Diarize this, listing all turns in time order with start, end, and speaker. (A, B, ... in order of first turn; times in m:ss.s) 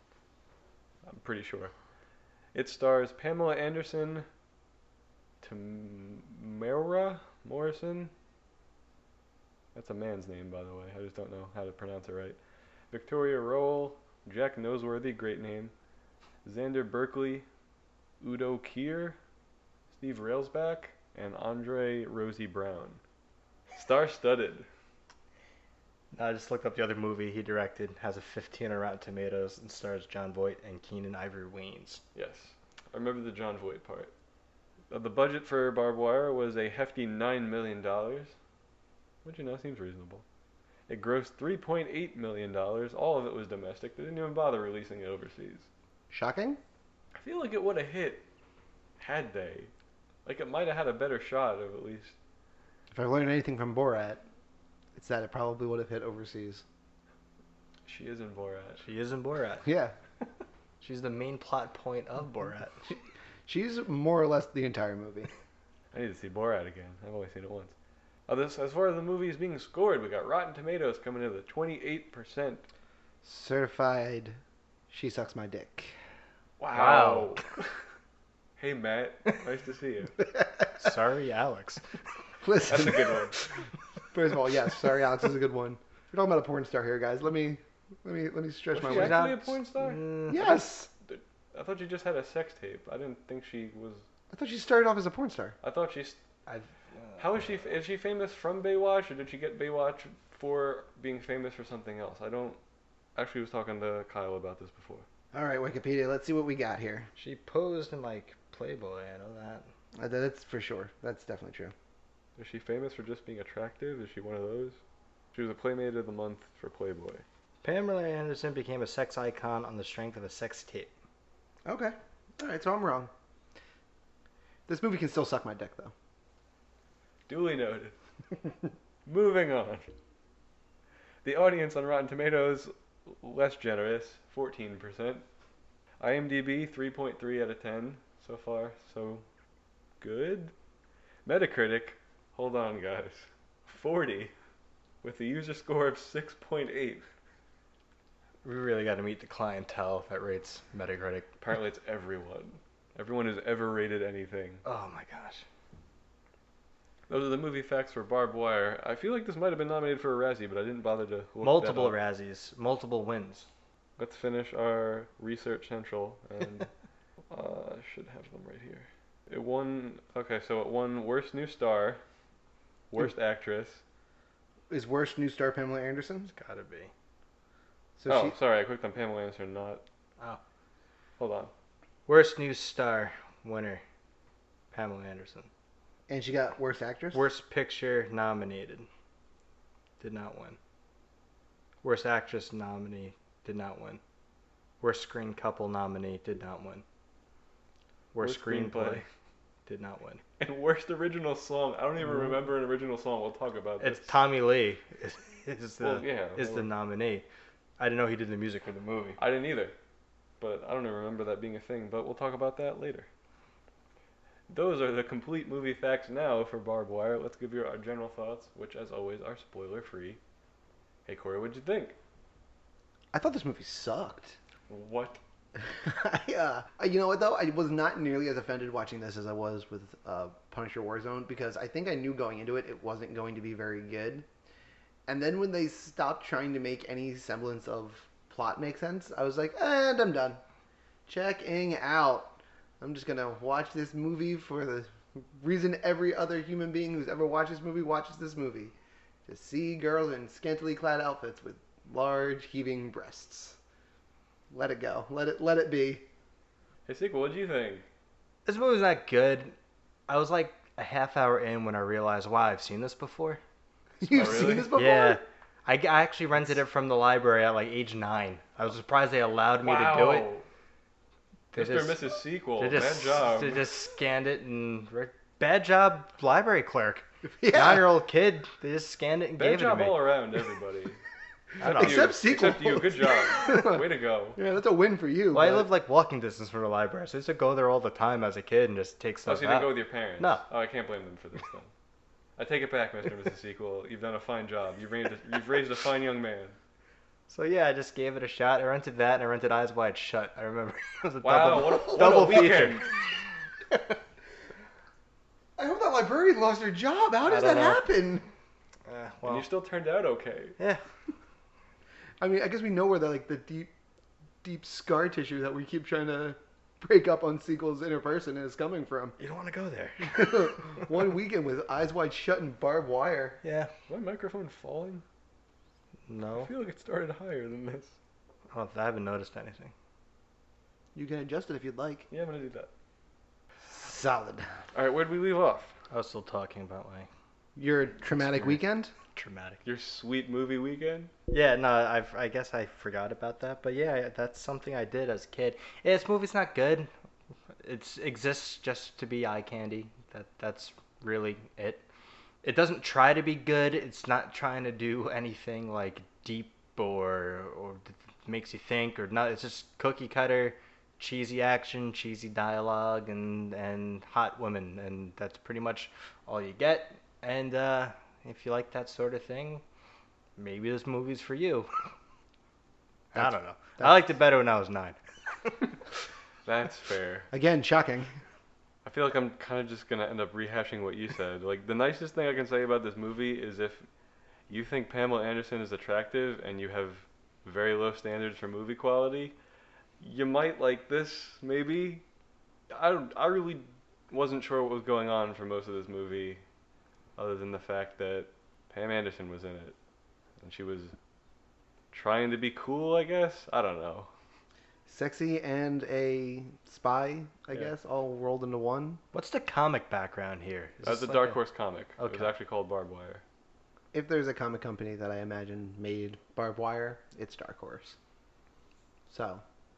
0:01.0-0:01.7 A
0:02.5-0:04.2 A
0:05.4-0:08.1 A
0:09.7-0:12.4 A
0:12.9-0:15.7 A
0:16.4-0:17.5 A
0:18.2-0:19.2 A
0:19.9-0:23.0 A
0:23.7-0:24.7 A
0:26.1-0:32.0 B
0:32.1-0:34.1 A
0:34.9-0:38.3 A
0:39.2-0:40.2 A
0:40.9-0:45.7 A
0:46.1-0:46.6 C
0:47.1-0:48.2 A
0:49.0-0:49.7 A
0:50.2-0:52.2 A
0:52.9-0:54.2 C
0:54.9-0:56.6 C
0:57.8-0:58.8 A
0:58.8-0:59.7 B
0:59.6-0:59.9 C
1:00.8-1:02.9 B
1:03.5-1:05.3 C
1:05.9-1:07.7 A
1:08.3-1:12.6 A
1:13.2-1:14.4 C
1:14.9-1:15.9 C
1:16.6-1:17.6 A
1:16.7-1:17.4 B
1:18.6-1:20.1 A
1:20.7-1:21.8 B
1:22.4-1:23.5 C
1:22.6-1:23.4 A
1:24.1-1:29.2 C
1:28.7-1:30.1 A
1:28.8-1:30.6 B
1:30.3-1:30.9 C
1:31.1-1:34.0 A
1:34.3-1:35.6 C
1:35.6-1:36.2 A
1:36.4-1:37.2 B
1:37.2-1:42.6 A
1:43.2-1:45.1 A
1:45.3-1:47.1 C
1:47.2-1:49.7 B
1:50.0-1:51.7 C
1:52.4-1:54.8 A
1:55.3-1:57.2 A
1:57.6-2:00.9 B
2:01.6-2:03.1 C
2:04.7-2:05.9 C
2:07.3-2:07.9 A
2:09.0-2:09.9 A
2:11.2-2:15.2 A
2:16.0-2:19.2 A
2:20.0-2:20.5 A
2:21.2-2:24.3 A
2:25.0-2:27.0 A
2:28.4-2:31.3 B
2:31.4-2:34.6 A
2:34.6-2:35.4 B
2:37.1-2:42.0 A
2:41.4-2:43.5 B
2:44.0-2:46.7 A
2:47.3-2:52.0 A
2:52.9-2:53.8 A
2:54.7-2:56.3 C
2:56.3-2:56.9 B
2:58.0-2:58.4 C
2:58.1-2:59.8 A
3:01.2-3:01.5 A
3:02.1-3:03.8 B
3:04.7-3:05.5 B
3:06.1-3:07.2 C
3:07.1-3:08.9 B
3:10.0-3:10.6 B
3:11.8-3:14.0 B
3:14.8-3:16.8 B
3:18.1-3:19.0 B
3:18.2-3:19.0 A
3:19.6-3:20.2 B
3:20.4-3:24.1 A
3:22.1-3:22.3 B
3:23.8-3:27.2 B
3:25.8-3:26.7 A
3:27.8-3:29.2 B
3:29.2-3:29.7 A
3:30.4-3:33.1 A
3:34.5-3:40.2 A
3:41.1-3:42.0 A
3:43.1-3:44.4 C
3:44.7-3:45.2 A
3:45.7-3:54.2 C
3:55.1-4:00.4 C
4:01.1-4:08.7 C
4:09.3-4:13.6 C
4:14.5-4:16.0 C
4:16.9-4:17.8 A
4:18.4-4:19.5 B
4:20.1-4:23.4 B
4:24.0-4:25.2 C
4:24.1-4:24.7 A
4:24.7-4:30.3 B
4:29.6-4:30.4 A
4:31.5-4:40.1 B
4:31.5-4:33.6 A
4:37.4-4:38.0 C
4:39.4-4:41.0 A
4:41.6-4:42.1 B
4:41.6-4:44.4 A
4:41.6-4:45.7 C
4:45.3-4:50.4 B
4:49.2-4:51.7 A
4:52.4-4:56.6 A
4:57.3-5:02.9 B
5:01.2-5:02.9 A
5:02.0-5:02.4 C
5:05.6-5:08.2 C
5:07.2-5:07.8 B
5:08.9-5:09.5 B
5:09.2-5:10.6 A
5:12.2-5:13.7 C
5:14.4-5:19.2 C
5:19.2-5:20.8 B
5:20.0-5:23.4 C
5:23.4-5:23.7 B
5:23.9-5:25.0 A
5:26.1-5:26.5 B
5:26.4-5:28.0 A
5:28.5-5:29.7 B
5:30.9-5:32.1 C
5:32.1-5:32.7 A
5:33.6-5:34.5 C
5:34.7-5:35.7 A
5:35.9-5:37.1 B
5:37.6-5:38.9 C
5:38.2-5:38.6 B
5:39.1-5:39.6 B
5:39.6-5:41.1 A
5:41.3-5:46.9 B
5:47.6-5:51.8 B
5:52.4-6:09.6 B
6:10.4-6:11.7 B
6:13.1-6:15.0 B
6:13.1-6:14.0 C
6:16.4-6:17.3 A
6:17.3-6:18.1 C
6:18.8-6:23.8 A
6:24.5-6:29.3 A
6:30.0-6:32.0 A
6:32.7-6:36.4 A
6:37.2-6:39.7 A
6:40.4-6:40.9 A
6:41.9-6:44.1 A
6:44.9-6:49.0 C
6:49.1-6:51.4 B
6:50.8-6:53.2 A
6:52.0-6:52.3 B
6:53.9-6:58.0 C
6:59.1-6:59.4 C